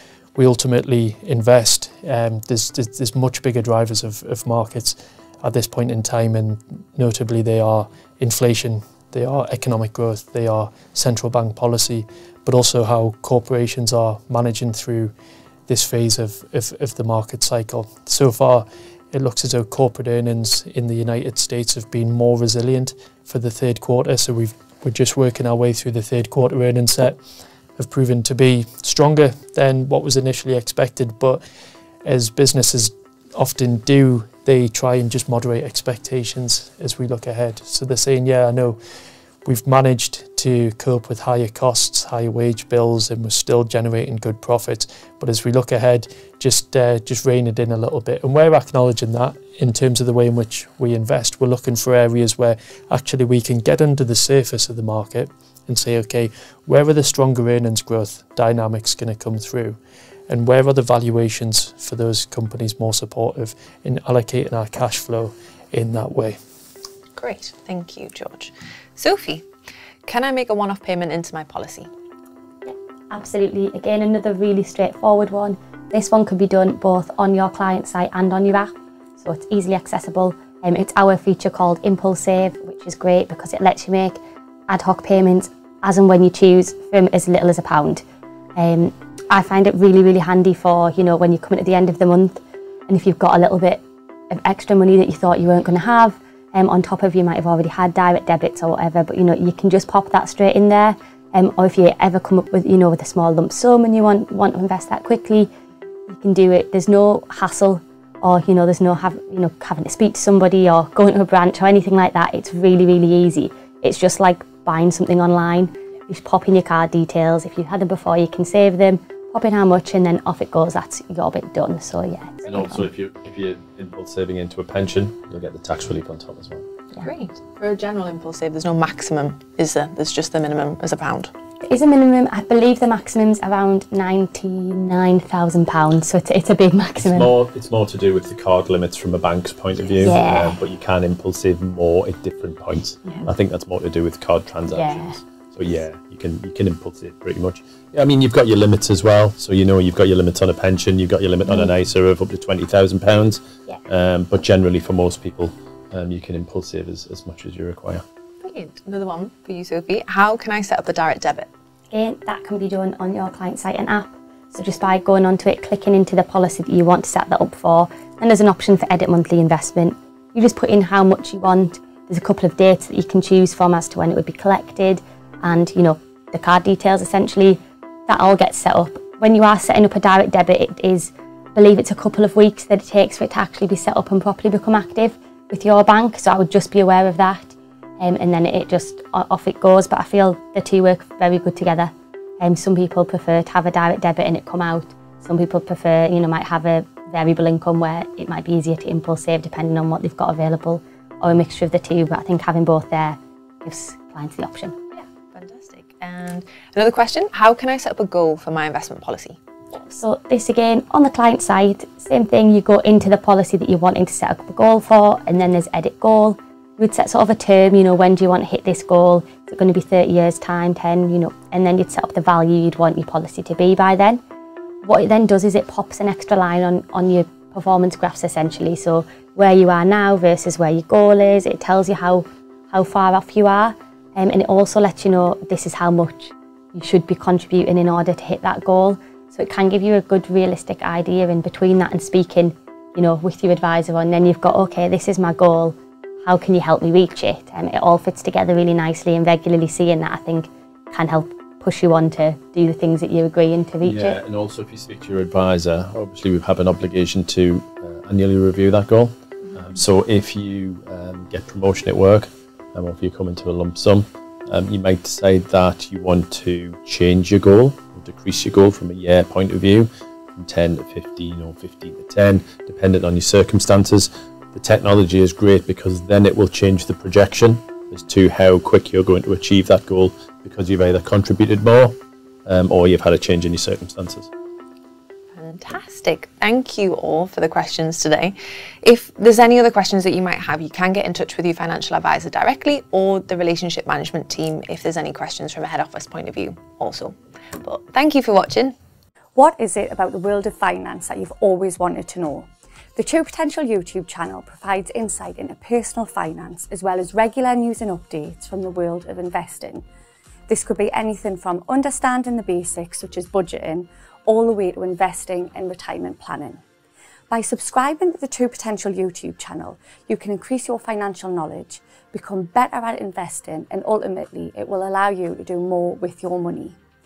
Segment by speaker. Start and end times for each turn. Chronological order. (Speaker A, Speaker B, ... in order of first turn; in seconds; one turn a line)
Speaker A: 0.3-15.1
Speaker A: 15.7-27.2
Speaker A: 27.8-31.4
Speaker A: 32.0-38.8
Speaker A: 39.4-66.4
Speaker B: 67.2-69.4
Speaker B: 70.1-71.9
Speaker C: 72.6-88.0
Speaker C: 88.6-105.5
Speaker C: 106.1-122.8
Speaker D: 122.4-126.7
Speaker B: 127.0-131.3
Speaker C: 131.6-137.3
Speaker D: 137.0-158.0
Speaker C: 140.0-140.6
Speaker C: 144.7-145.2
Speaker B: 158.4-161.5
Speaker C: 161.9-204.7
Speaker B: 204.9-209.4
Speaker C: 209.7-224.2
Speaker C: 224.8-254.2
Speaker D: 253.8-284.3
Speaker B: 285.3-298.7
Speaker E: 299.3-309.8
Speaker E: 310.5-316.6
Speaker E: 317.3-326.8